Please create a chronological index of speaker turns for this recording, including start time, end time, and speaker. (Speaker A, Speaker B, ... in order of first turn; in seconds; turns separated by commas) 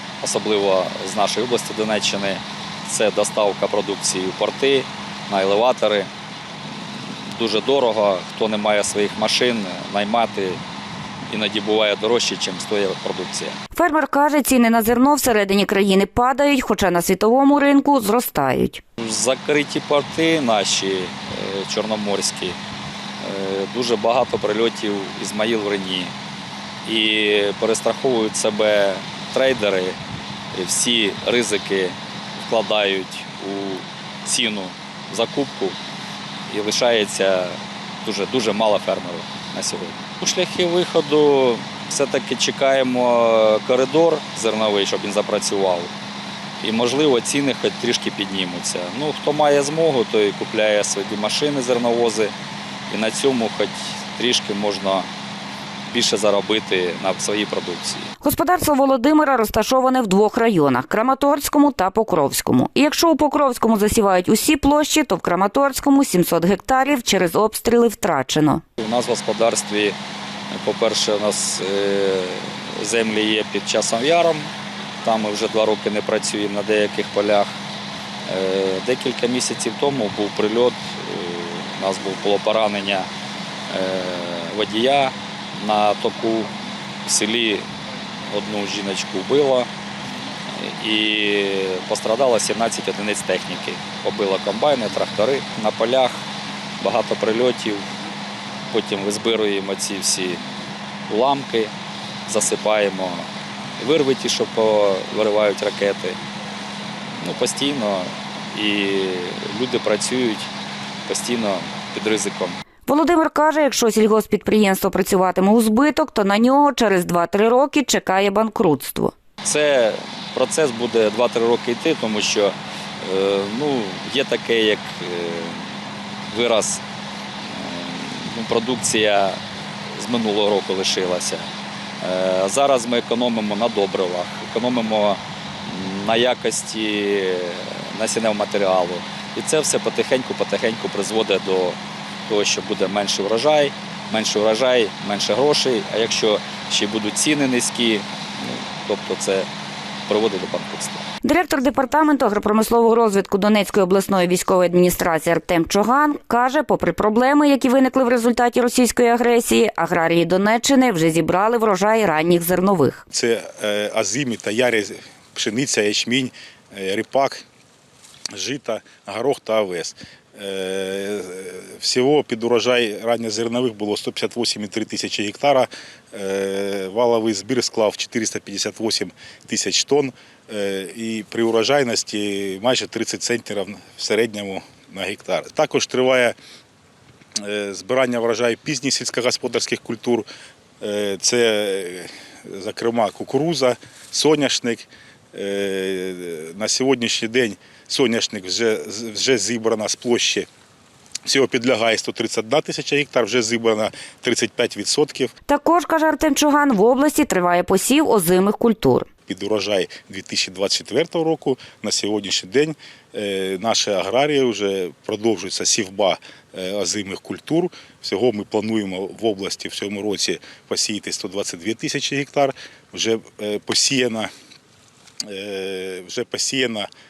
Speaker A: 0.2-6.1, Speaker A: 7.3-10.6, Speaker A: 11.3-13.6, Speaker B: 13.7-18.8, Speaker A: 19.0-22.6, Speaker A: 23.2-26.1, Speaker A: 26.9-30.0, Speaker A: 30.5-35.8, Speaker A: 36.5-45.9, Speaker A: 46.6-52.3, Speaker A: 52.9-55.1, Speaker A: 55.9-58.1, Speaker B: 58.2-68.6, Speaker A: 68.8-70.0, Speaker A: 70.5-74.5, Speaker A: 75.0-77.5, Speaker A: 78.2-83.1, Speaker A: 83.7-86.5, Speaker A: 87.0-87.7, Speaker A: 88.3-89.7, Speaker A: 90.5-96.2, Speaker A: 96.8-97.8, Speaker A: 98.7-100.4, Speaker A: 101.1-101.7, Speaker A: 102.2-103.3, Speaker A: 103.8-106.2, Speaker A: 107.2-110.5, Speaker A: 111.1-112.6, Speaker B: 112.8-119.1, Speaker A: 119.4-125.7, Speaker A: 126.3-126.8, Speaker A: 127.4-129.4, Speaker A: 129.9-131.5, Speaker A: 132.0-149.5, Speaker A: 150.1-151.0, Speaker B: 151.2-163.0, Speaker C: 163.1-167.4, Speaker C: 168.3-186.3, Speaker C: 187.4-190.2, Speaker C: 190.8-200.5, Speaker C: 201.2-205.3, Speaker B: 205.5-209.1, Speaker C: 209.3-224.3, Speaker C: 225.3-226.9